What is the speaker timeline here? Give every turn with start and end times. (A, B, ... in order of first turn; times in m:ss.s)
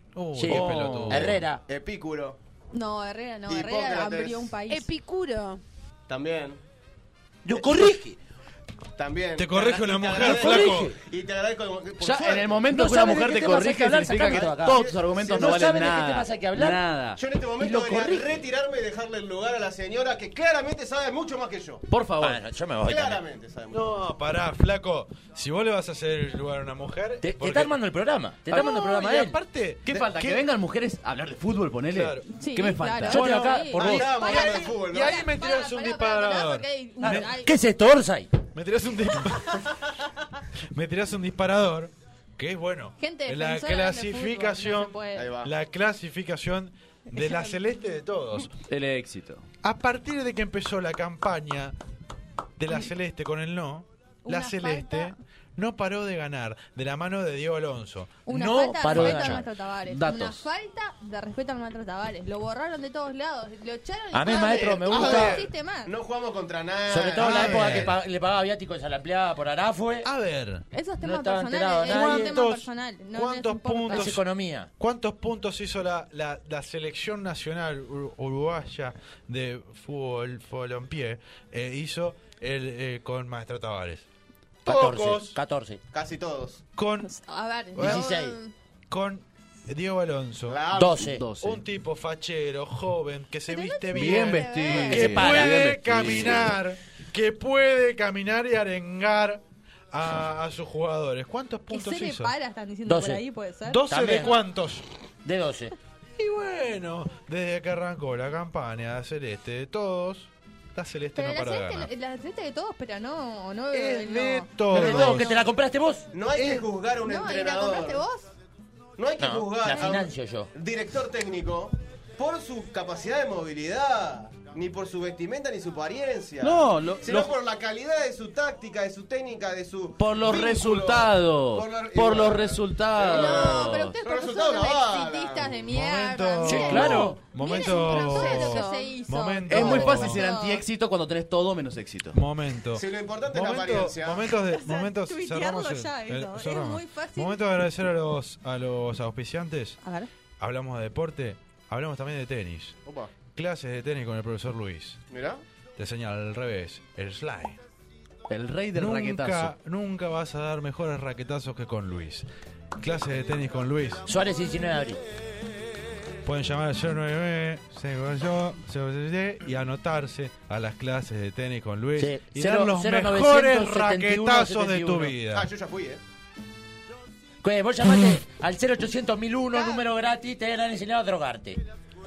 0:00.2-0:01.4 A
0:00.4-0:01.6 B
0:00.5-0:01.4 C
0:01.7-0:02.4 D
0:02.7-0:04.9 E
0:03.5-0:04.5 D
0:04.7-0:05.6 F
0:06.1-0:06.6 D
0:07.4-0:08.2 B
0:09.0-0:12.7 D
0:09.4-0:11.0 A
0:10.2-0:11.0 B
0:12.0-0:17.2 C
0:12.7-0:16.8 B
0:14.2-0:15.6 D
0:17.2-0:21.8 D
0:17.6-0:18.4 B
0:21.9-0:22.4 C
0:22.2-0:23.2 B
0:22.8-0:24.0 D
0:23.7-0:27.8 A
0:27.2-0:29.4 B
0:28.5-0:30.4 A
0:29.9-0:33.3 C
0:31.9-0:32.2 A
0:32.3-0:37.6 E
0:33.1-0:37.3 A
0:33.1-0:34.2 B
0:33.8-0:35.2 D
0:37.0-0:38.3 B
0:38.5-0:39.8 A
0:40.7-0:48.6 A
0:43.0-0:45.3 E
0:45.2-0:45.5 D
0:47.1-0:47.6 E
0:48.7-0:49.4 C
0:49.6-0:51.8 A
0:52.6-0:58.2 A
0:54.3-0:55.2 E
0:58.3-0:59.5 B
0:58.3-1:05.9 E
0:58.9-1:00.5 C
1:04.1-1:05.4 B
1:04.2-1:08.0 D
1:04.9-1:05.5 A
1:06.9-1:10.1 B
1:07.2-1:08.0 A
1:10.0-1:10.6 A
1:10.7-1:14.2 E
1:11.0-1:12.4 B
1:11.8-1:14.2 A
1:13.9-1:14.7 B
1:14.8-1:24.1 A
1:24.6-1:25.4 A
1:24.7-1:25.8 B
1:25.9-1:26.6 D
1:26.8-1:27.1 A
1:27.0-1:28.5 E
1:27.7-1:28.1 A
1:27.8-1:28.4 B
1:28.9-1:30.6 A
1:30.5-1:31.1 D
1:30.7-1:31.2 B
1:31.0-1:31.6 C
1:31.4-1:42.3 A
1:33.5-1:35.5 E
1:33.9-1:36.6 C
1:34.9-1:35.8 B
1:41.7-1:44.3 E
1:42.9-1:43.2 B
1:43.7-1:44.8 A
1:43.9-1:44.4 B
1:45.2-1:45.7 B
1:46.2-1:51.9 A
1:51.2-1:55.3 E
1:53.7-1:55.5 A
1:54.7-1:56.1 B
1:56.1-1:58.0 D
1:56.4-1:56.6 A
1:57.0-1:58.3 E
1:59.0-2:15.6 D
1:59.2-2:00.5 B
1:59.7-2:00.0 E
2:06.4-2:07.3 C
2:10.0-2:14.0 C
2:13.0-2:20.6 E
2:15.7-2:20.2 A
2:16.4-2:17.2 B
2:17.4-2:19.0 F
2:19.5-2:22.2 C
2:22.1-2:29.8 A
2:22.8-2:24.3 D
2:24.3-2:27.4 E
2:29.8-2:30.1 E
2:30.4-2:35.0 A
2:32.8-2:33.1 D
2:35.1-2:35.4 D
2:35.8-2:37.6 A
2:38.3-2:39.5 C
2:38.8-2:42.3 A
2:42.8-2:44.1 A
2:44.1-2:45.0 B
2:46.3-2:55.5 A
2:52.0-2:55.2 B
2:55.2-2:56.0 D
2:57.4-3:01.6 B